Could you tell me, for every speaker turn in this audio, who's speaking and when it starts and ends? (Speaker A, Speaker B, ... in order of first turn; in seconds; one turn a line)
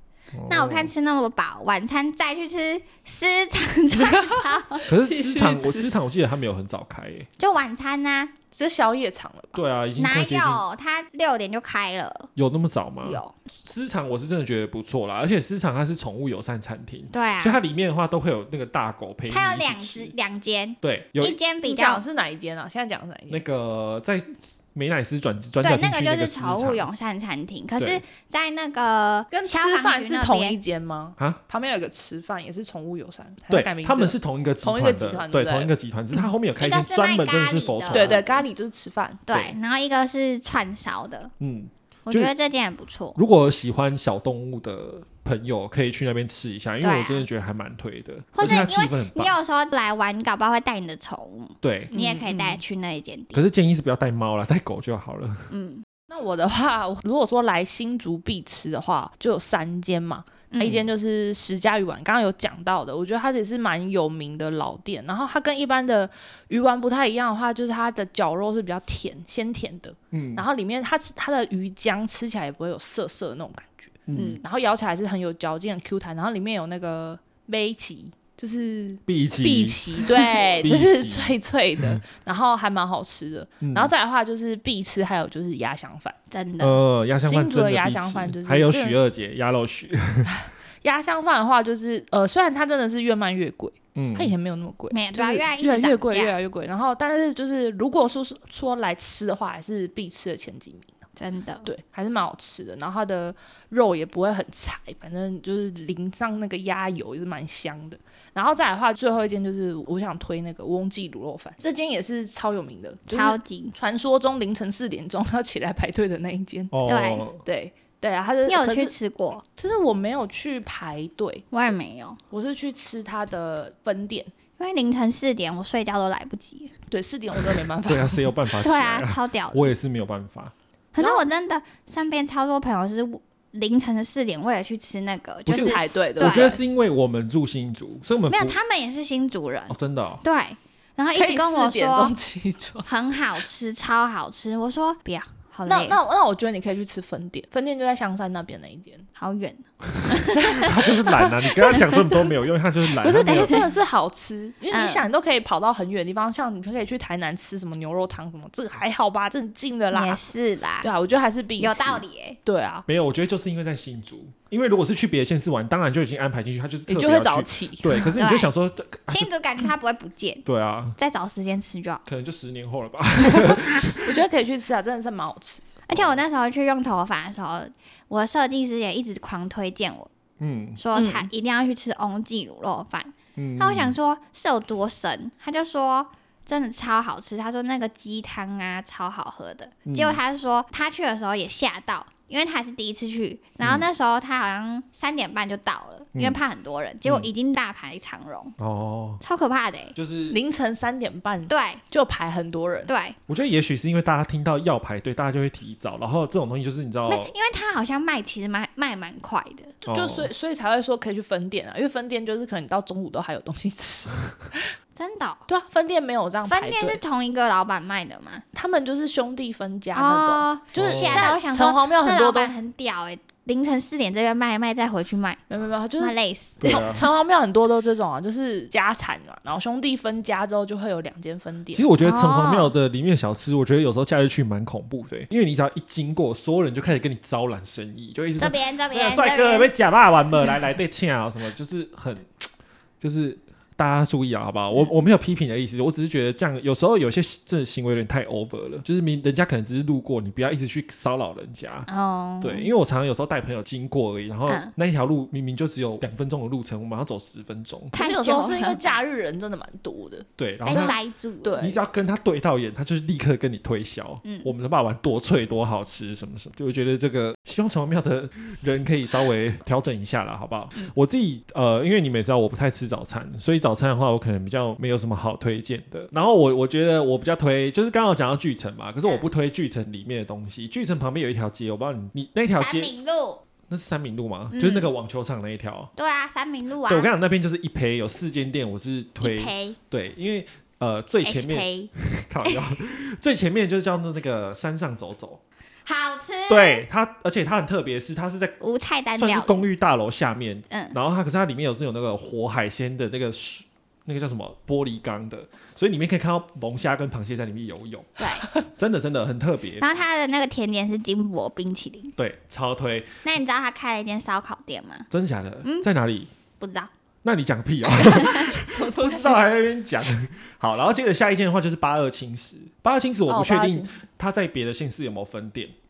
Speaker A: 0.3-0.9
Speaker B: 0.5-4.8
Speaker C: 4.0-5.9
Speaker A: 4.9-7.3
Speaker B: 7.4-8.3
Speaker C: 8.5-9.6
Speaker A: 9.5-10.6
Speaker B: 10.0-12.3
Speaker A: 12.3-20.1
Speaker B: 13.0-13.3
Speaker B: 17.1-17.6
Speaker B: 19.3-22.0
Speaker A: 20.8-21.4
Speaker C: 21.6-23.4
Speaker A: 23.3-26.9
Speaker B: 25.6-30.6
Speaker C: 29.3-35.7
Speaker A: 33.5-38.3
Speaker B: 36.6-38.4
Speaker C: 37.9-39.2
Speaker B: 39.3-41.3
Speaker A: 41.4-42.3
Speaker B: 42.1-43.2
Speaker A: 43.1-49.3
Speaker B: 46.8-47.2
Speaker B: 48.4-53.4
Speaker A: 51.6-51.9
Speaker C: 51.9-52.6
Speaker A: 53.3-55.5
Speaker B: 55.5-55.8
Speaker C: 56.1-86.2
Speaker B: 60.5-60.8
Speaker A: 70.1-70.5
Speaker A: 74.1-74.4
Speaker B: 74.1-74.4
Speaker A: 79.1-82.0
Speaker A: 83.6-83.9
Speaker B: 86.3-86.8
Speaker A: 86.6-90.3
Speaker C: 87.2-89.0
Speaker C: 90.3-100.9
Speaker A: 93.9-94.3
Speaker B: 94.9-96.3
Speaker B: 101.2-101.7
Speaker C: 101.6-116.8
Speaker B: 113.1-113.7
Speaker A: 116.7-117.4
Speaker B: 116.8-117.2
Speaker C: 117.4-118.9
Speaker B: 118.5-119.4
Speaker C: 119.6-121.5
Speaker B: 121.5-122.2
Speaker C: 122.3-124.3
Speaker B: 124.6-126.7
Speaker C: 126.9-128.3
Speaker A: 127.8-130.5
Speaker B: 128.6-129.7
Speaker B: 130.9-136.6
Speaker C: 131.0-131.2
Speaker A: 135.4-138.6
Speaker C: 135.5-136.6
Speaker B: 138.3-142.1
Speaker A: 139.7-140.2
Speaker C: 141.1-142.9
Speaker B: 142.8-146.0
Speaker C: 145.7-149.1
Speaker B: 149.2-150.7
Speaker A: 149.9-153.7
Speaker C: 150.4-152.1
Speaker C: 153.0-160.2
Speaker B: 153.3-153.7
Speaker B: 154.7-155.1
Speaker B: 159.9-160.9
Speaker C: 160.8-162.8
Speaker B: 161.6-162.4
Speaker A: 162.8-169.3
Speaker C: 166.9-168.1
Speaker B: 168.2-168.5
Speaker B: 169.1-170.4
Speaker A: 170.4-171.0
Speaker B: 171.0-172.0
Speaker A: 172.1-174.2
Speaker C: 173.3-175.7
Speaker B: 175.9-180.1
Speaker A: 175.9-176.2
Speaker A: 180.4-180.8
Speaker B: 180.8-198.5
Speaker C: 180.9-181.3
Speaker A: 183.3-183.9
Speaker A: 189.8-190.2
Speaker A: 193.6-193.8
Speaker A: 198.6-199.2
Speaker B: 199.2-199.9
Speaker A: 199.9-200.4
Speaker C: 200.3-202.9
Speaker B: 201.5-201.8
Speaker B: 202.9-203.2
Speaker A: 203.3-207.3
Speaker B: 207.1-209.7
Speaker C: 209.8-214.7
Speaker A: 209.8-210.3
Speaker B: 214.9-215.5
Speaker C: 215.5-217.0
Speaker B: 216.5-218.4
Speaker C: 218.5-222.5
Speaker B: 219.9-225.4
Speaker A: 220.8-221.3
Speaker C: 225.5-231.8
Speaker B: 226.0-226.9
Speaker A: 226.6-227.1
Speaker A: 231.7-242.5
Speaker B: 232.0-232.7
Speaker B: 238.4-239.7
Speaker A: 243.0-251.9
Speaker B: 251.9-252.7
Speaker A: 252.4-257.9
Speaker B: 254.5-254.7
Speaker B: 257.9-258.9
Speaker C: 257.9-261.8
Speaker A: 260.4-260.9
Speaker B: 260.6-261.5
Speaker A: 261.5-282.9
Speaker B: 264.2-264.5
Speaker B: 282.5-283.4
Speaker A: 283.7-285.9
Speaker B: 284.5-284.9
Speaker B: 286.0-287.1
Speaker A: 286.9-295.4
Speaker B: 289.2-289.8
Speaker B: 291.2-291.9
Speaker B: 295.9-296.8
Speaker A: 296.5-298.6
Speaker B: 298.6-299.6
Speaker A: 299.1-309.9
Speaker B: 300.7-300.9
Speaker B: 308.2-308.5
Speaker B: 309.8-312.1
Speaker A: 312.2-313.2
Speaker B: 313.2-315.1
Speaker A: 315.1-316.3
Speaker B: 316.6-316.9
Speaker A: 317.2-325.7
Speaker B: 317.9-318.6
Speaker C: 318.5-319.4
Speaker C: 323.3-324.0